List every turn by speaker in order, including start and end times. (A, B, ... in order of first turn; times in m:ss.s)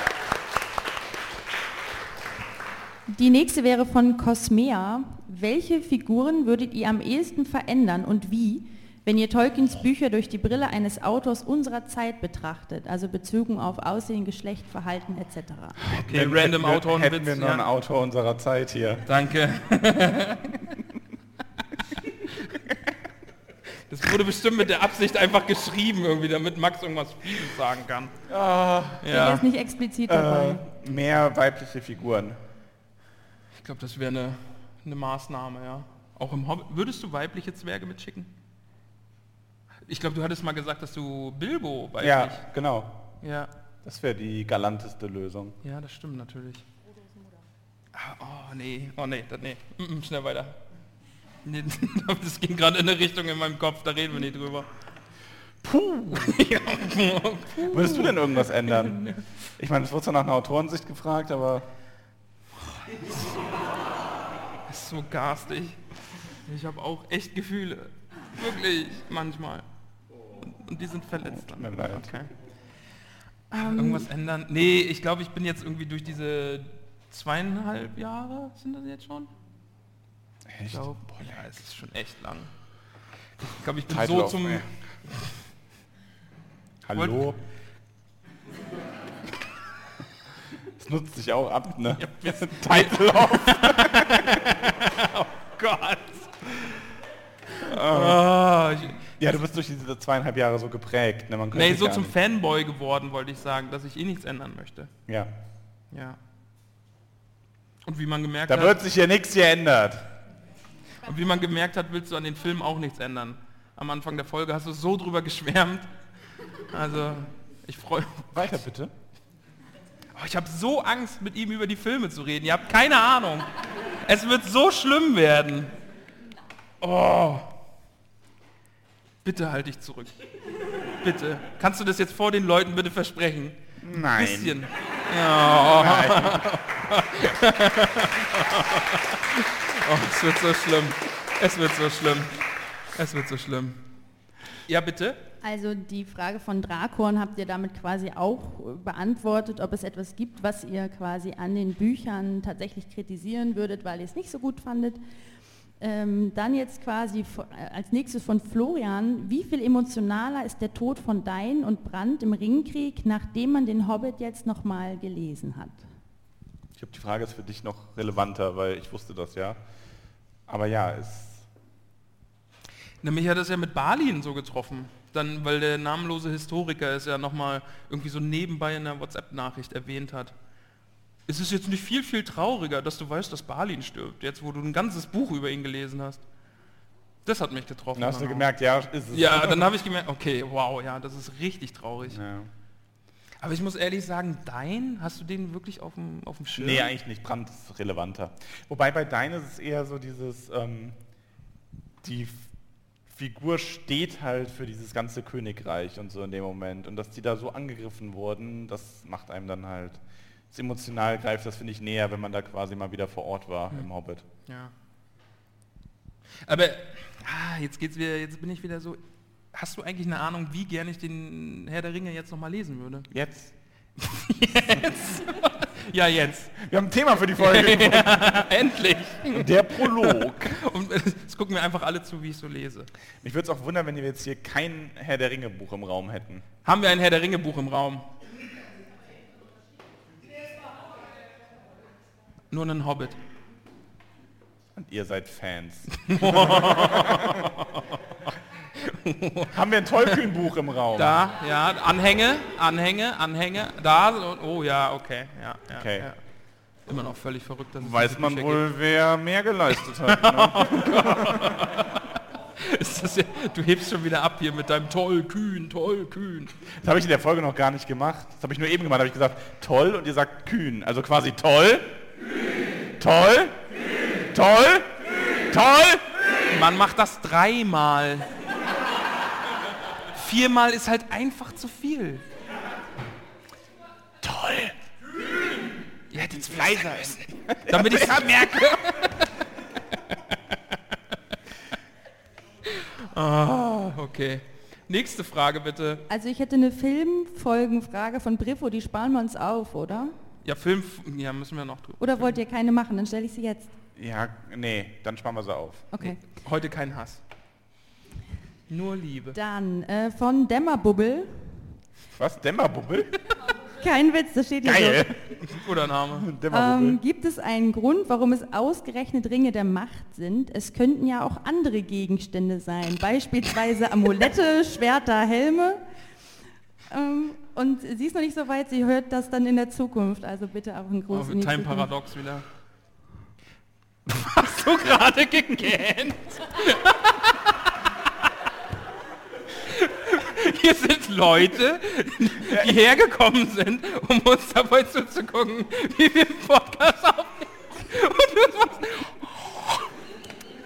0:03.1-0:15.8 A
0:15.8-0:19.0 B
0:15.9-0:17.6 C
0:19.1-0:20.8 C
0:23.9-0:28.1 C
0:28.3-0:29.2 B
0:29.0-0:29.4 C
0:29.1-0:30.6 A
0:30.1-0:32.4 B
0:33.6-0:38.3 C
0:39.8-0:42.4 C
0:42.0-0:43.0 B
0:43.2-0:43.5 C
0:43.8-0:45.6 B
0:45.6-0:46.7 C
0:47.9-0:50.6 C
0:51.4-0:54.7 C
0:55.6-0:56.4 B
0:56.1-0:59.2 C
0:57.6-1:01.7 B
1:02.9-1:03.2 C
1:04.7-1:05.8 C
1:06.4-1:09.6 C
1:10.4-1:12.3 C
1:11.2-1:12.1 B
1:13.5-1:19.3 C
1:13.6-1:14.0 A
1:20.4-1:21.4 B
1:20.7-1:22.5 C
1:23.4-1:24.7 C
1:23.8-1:24.6 B
1:26.8-1:27.4 B
1:26.9-1:27.3 C
1:30.7-1:34.4 B
1:32.0-1:36.8 C
1:37.6-1:38.3 B
1:37.6-1:39.1 C
1:39.2-1:42.1 B
1:41.5-1:44.9 C
1:45.9-1:46.2 C
1:47.8-1:48.8 C
1:48.5-1:50.1 B
1:51.0-1:55.9 C
1:56.7-1:58.6 C
1:58.3-1:58.9 B
2:00.1-2:05.7 C
2:06.8-2:07.5 C
2:09.2-2:10.2 C
2:10.8-2:23.8 C
2:13.8-2:14.6 B
2:15.6-2:16.5 B
2:24.7-2:25.2 C
2:25.4-2:35.0 A
2:35.8-2:45.8 A
2:46.8-2:49.6 B
2:50.5-2:51.5 B
2:53.0-3:00.3 C
3:01.3-3:06.2 C
3:07.2-3:08.5 C
3:07.9-3:09.7 B
3:09.1-3:12.2 C
3:12.1-3:12.5 B
3:13.4-3:16.9 C
3:16.6-3:21.0 B
3:22.0-3:22.5 B
3:23.1-3:34.2 B
3:34.4-3:34.7 C
3:36.4-3:39.0 C
3:39.5-3:43.1 C
3:43.1-3:43.5 B
3:44.0-3:46.5 C
3:46.6-3:48.4 B
3:47.4-3:52.9 C
3:49.3-3:50.6 B
3:53.2-3:56.4 B
3:56.6-3:58.1 C
4:02.5-4:03.2 C
4:04.7-4:07.5 B
4:06.0-4:09.6 C
4:09.5-4:11.2 B
4:11.0-4:16.2 C
4:15.7-4:16.1 B
4:16.8-4:18.6 C
4:17.8-4:21.7 B
4:20.0-4:26.5 C
4:26.7-4:32.0 B
4:33.0-4:33.6 B
4:34.3-4:36.0 B
4:36.5-4:38.3 C
4:40.1-4:42.2 C
4:44.2-4:44.8 B
4:46.1-4:49.4 C
4:46.1-4:48.9 B
4:52.6-4:56.0 C
4:56.1-5:00.1 A
5:00.4-5:02.4 C
5:02.0-5:03.7 A
5:04.0-5:05.9 B
5:05.9-5:06.2 A
5:06.0-5:07.2 C
5:08.7-5:09.4 C
5:09.3-5:11.6 A
5:12.1-5:13.2 B
5:13.8-5:15.1 A
5:14.6-5:17.0 B
5:15.4-5:16.3 C
5:16.5-5:25.8 A
5:26.9-5:31.9 A
5:31.1-5:32.4 C
5:34.0-5:37.7 C
5:39.6-5:49.8 C
5:42.4-5:42.8 B